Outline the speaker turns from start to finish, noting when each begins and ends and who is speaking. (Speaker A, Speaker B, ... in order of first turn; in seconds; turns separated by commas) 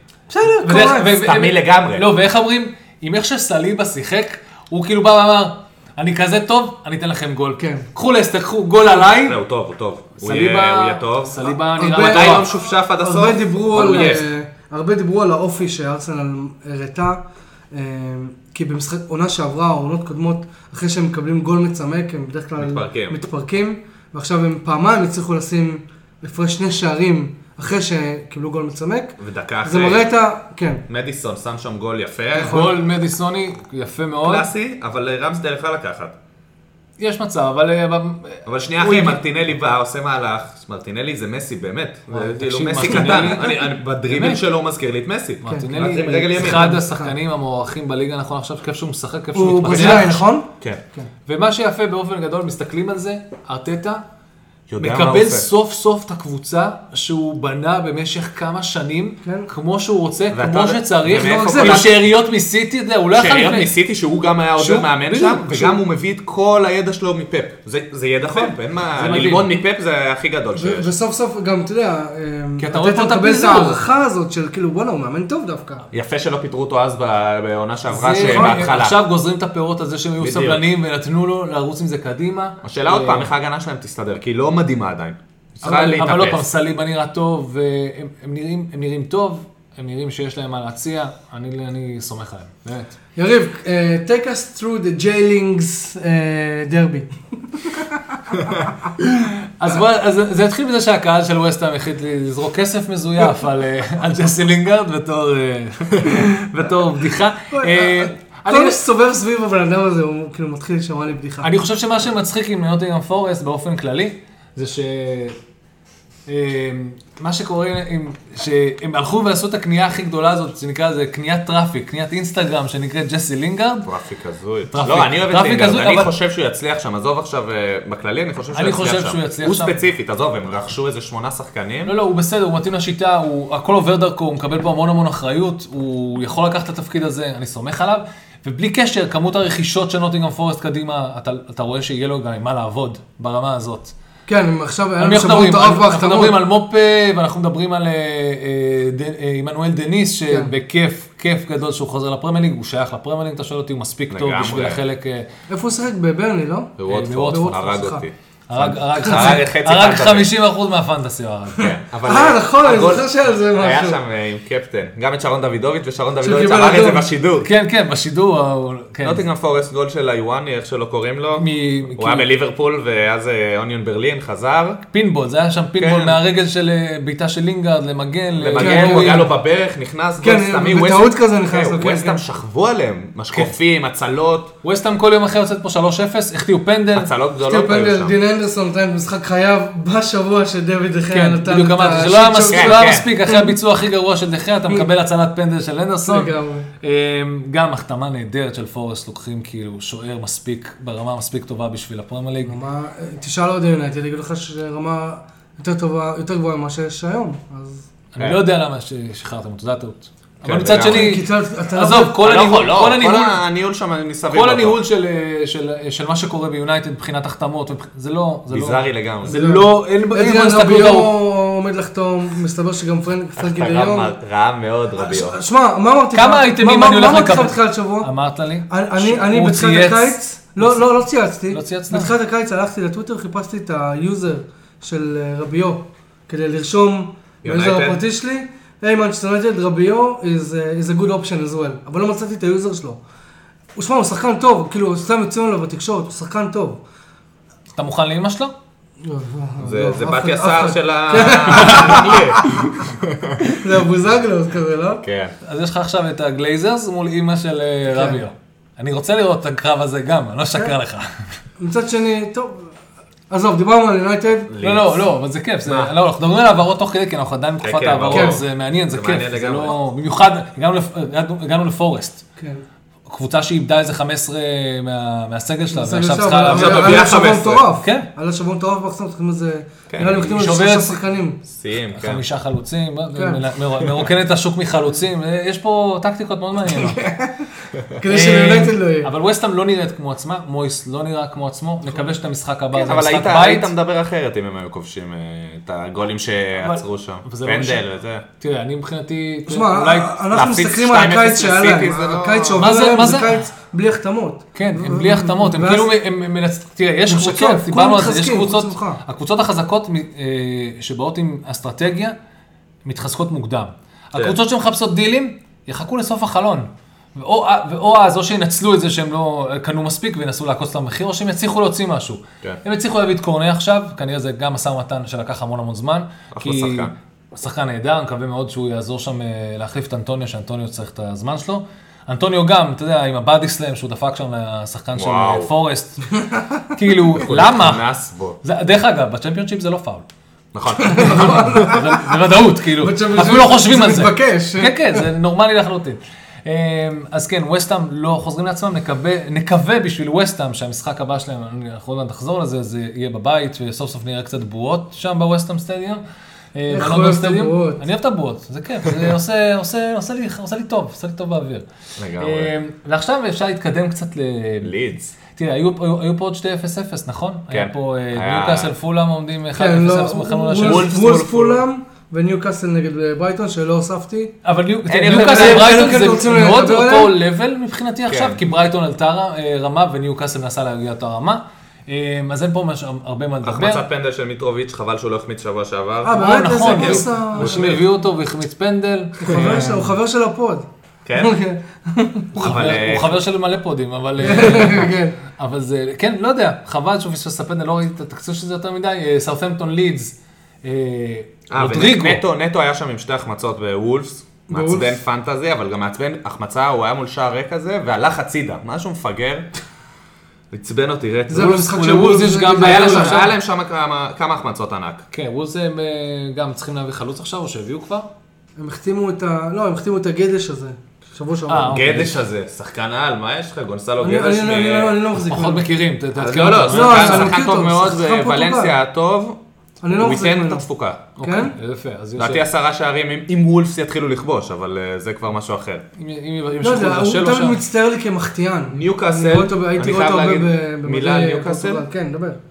Speaker A: 0.3-1.2, Speaker B: 0.5-9.4, Speaker C: 1.1-2.1, Speaker A: 7.6-7.9, Speaker C: 9.0-14.3, Speaker B: 10.2-12.5, Speaker A: 11.8-30.8, Speaker C: 22.6-23.2, Speaker C: 29.2-30.1, Speaker C: 30.9-32.7, Speaker A: 32.4-32.8, Speaker B: 32.4-34.5, Speaker C: 34.2-36.2, Speaker B: 37.0-39.2, Speaker C: 38.5-46.7, Speaker B: 42.1-44.4, Speaker B: 45.4-50.2, Speaker A: 45.5-45.7, Speaker A: 46.4-47.1, Speaker A: 49.4-51.1, Speaker C: 49.7-50.8, Speaker B: 51.3-54.0, Speaker C: 54.7-55.5, Speaker B: 54.8-63.7, Speaker A: 59.2-59.5, Speaker C: 60.3-62.0, Speaker A: 61.1-61.9, Speaker C: 63.1-70.9, Speaker B: 64.6-65.8, Speaker B: 69.0-69.5, Speaker A: 70.5-75.8, Speaker B: 72.6-73.8, Speaker C: 75.9-79.0, Speaker B: 77.9-83.3, Speaker A: 78.2-78.5, Speaker C: 80.2-80.6, Speaker C: 82.6-86.5, Speaker B: 85.6-92.9, Speaker A: 93.2-98.5, Speaker B: 99.0-108.8, Speaker A: 107.5-111.5, Speaker B: 111.4-115.4, Speaker B: 116.3-123.9, Speaker C: 123.8-131.9, Speaker B: 124.7-126.1, Speaker B: 128.5-129.8, Speaker B: 131.8-143.9, Speaker A: 144.3-146.4, Speaker B: 145.0-155.3, Speaker C: 154.1-154.8, Speaker A: 155.5-158.0, Speaker C: 156.8-160.3, Speaker B: 156.9-157.8, Speaker B: 158.5-161.7, Speaker C: 161.6-167.5, Speaker A: 162.1-164.0, Speaker A: 166.2-167.1, Speaker B: 167.4-169.2, Speaker C: 169.0-174.8, Speaker B: 171.4-172.3, Speaker B: 174.9-179.3, Speaker C: 175.8-176.2, Speaker C: 178.4-184.5, Speaker A: 178.6-179.3, Speaker A: 180.2-182.2, Speaker B: 184.6-187.1, Speaker C: 186.9-188.2, Speaker A: 187.4-193.5, Speaker B: 191.1-202.6, Speaker C: 192.5-193.1, Speaker A: 196.1-196.7, Speaker A: 202.4-207.9, Speaker B: 208.2-213.4, Speaker C: 210.4-211.2, Speaker A: 210.8-212.2, Speaker C: 212.0-214.8, Speaker B: 214.3-221.1, Speaker C: 218.5-219.4, Speaker A: 219.3-224.1, Speaker C: 223.4-225.4, Speaker A: 224.9-228.1, Speaker B: 226.1-230.8, Speaker A: 228.7-243.0, Speaker B: 231.5-232.1, Speaker C: 237.4-238.0, Speaker A: 243.8-246.8, Speaker B: 247.8-248.5, Speaker A: 249.0-252.8, Speaker C: 249.6-253.6, Speaker B: 251.5-252.1, Speaker A: 253.5-255.0, Speaker C: 255.0-255.3, Speaker B: 255.4-261.2, Speaker A: 257.9-258.2, Speaker A: 261.6-262.7, Speaker A: 263.3-264.5, Speaker C: 264.5-265.1, Speaker B: 264.6-272.2, Speaker C: 265.6-265.9, Speaker C: 267.6-269.8, Speaker A: 268.1-268.4, Speaker A: 272.4-272.6, Speaker B: 273.1-277.1, Speaker A: 275.7-281.4, Speaker C: 276.5-277.7, Speaker B: 277.8-278.1, Speaker C: 279.9-280.5, Speaker B: 280.3-281.0, Speaker C: 281.5-282.2, Speaker B: 281.9-287.0, Speaker A: 283.1-283.4, Speaker A: 286.8-287.3, Speaker A: 287.9-289.1, Speaker B: 288.0-293.7, Speaker C: 292.7-298.2, Speaker B: 296.6-297.8, Speaker B: 298.4-300.1, Speaker A: 299.5-306.0, Speaker C: 300.3-302.7, Speaker B: 302.6-303.5, Speaker B: 304.6-312.2, Speaker A: 307.1-309.0, Speaker B: 312.9-336.1, Speaker C: 326.3-326.9, Speaker C: 334.9-335.5, Speaker B: 336.7-337.8, Speaker C: 337.2-338.4, Speaker B: 338.4-340.1, Speaker C: 340.5-341.7, Speaker A: 340.8-342.0, Speaker B: 341.0-356.0, Speaker A: 342.8-345.1, Speaker B: 356.6-361.7, Speaker A: 356.7-357.8, Speaker C: 362.0-362.5, Speaker B: 362.2-371.2, Speaker C: 364.6-365.1, Speaker C: 367.5-368.7, Speaker A: 369.6-374.4, Speaker C: 370.6-371.6, Speaker B: 374.4-383.8, Speaker C: 374.9-375.9, Speaker A: 375.1-377.2, Speaker C: 378.1-378.4, Speaker C: 383.4-387.8, Speaker A: 386.0-387.6, Speaker B: 386.2-389.9, Speaker A: 389.2-390.7, Speaker C: 391.1-391.4, Speaker A: 391.2-392.3, Speaker B: 392.3-402.2, Speaker C: 392.4-393.2, Speaker A: 394.2-395.2, Speaker C: 401.5-409.5, Speaker A: 404.5-404.9, Speaker C: 410.5-411.5, Speaker A: 411.3-413.3, Speaker B: 411.3-413.3, Speaker C: 412.6-415.1, Speaker B: 415.1-418.1, Speaker A: 418.6-421.9, Speaker B: 421.5-422.2, Speaker C: 421.7-425.0, Speaker A: 424.0-425.7, Speaker B: 425.2-427.4, Speaker C: 426.2-429.4, Speaker A: 426.7-428.7, Speaker A: 429.8-430.6, Speaker C: 429.9-431.0, Speaker B: 431.2-432.4, Speaker A: 431.2-431.6, Speaker C: 432.2-435.8, Speaker B: 436.0-437.6, Speaker A: 436.6-442.4, Speaker C: 438.7-441.9